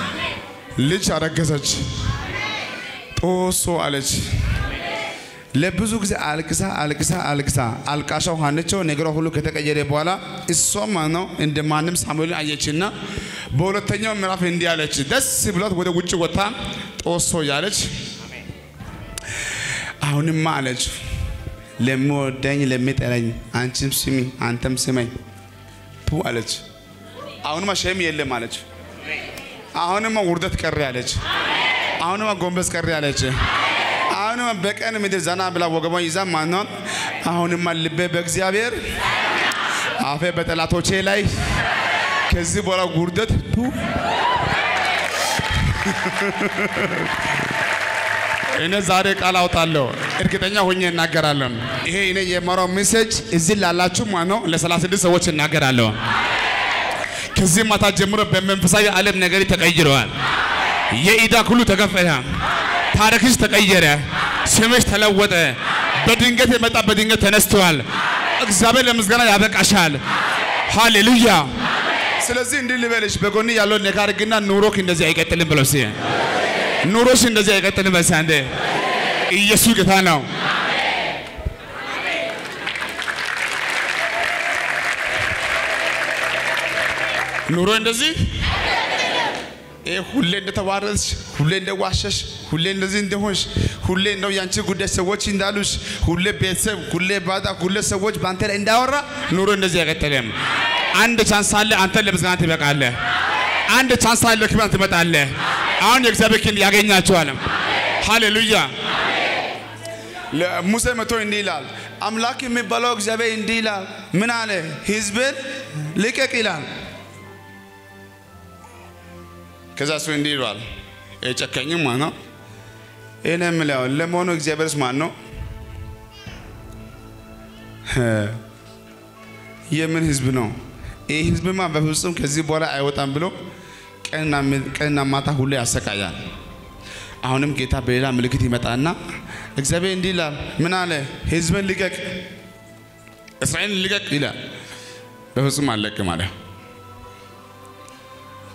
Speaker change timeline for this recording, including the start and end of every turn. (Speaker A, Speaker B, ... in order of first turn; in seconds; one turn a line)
Speaker A: 0.8-1.9
Speaker A: 3.2-4.4
Speaker A: 5.5-12.9
Speaker A: 13.5-17.9
Speaker A: 20.0-21.0
Speaker A: 21.8-25.1
Speaker A: 26.1-26.6
Speaker A: 27.4-28.6
Speaker A: 29.8-31.2
Speaker A: 32.0-33.4
Speaker A: 34.1-36.7
Speaker A: 37.2-38.9
Speaker A: 40.0-41.5
Speaker A: 42.3-43.8
Speaker A: 45.6-47.1
Speaker A: 48.5-56.0
Speaker A: 57.4-60.1
Speaker A: 60.9-62.3
Speaker A: 62.9-67.8
Speaker A: 68.4-70.0
Speaker A: 70.7-71.5
Speaker A: 72.2-76.0
Speaker A: 76.8-78.5
Speaker A: 79.3-80.3
Speaker A: 87.5-88.2
Speaker A: 89.8-100.3
Speaker A: 100.9-103.0
Speaker A: 103.7-107.4
Speaker A: 108.0-108.7
Speaker A: 110.3-116.7
Speaker A: 119.8-120.6
Speaker A: 121.2-122.1
Speaker A: 123.2-125.1
Speaker A: 127.9-128.4
Speaker A: 129.7-130.5
Speaker A: 131.1-133.3
Speaker A: 134.0-136.2
Speaker A: 137.2-139.0
Speaker A: 139.6-142.2
Speaker A: 143.4-144.3
Speaker A: 145.3-146.3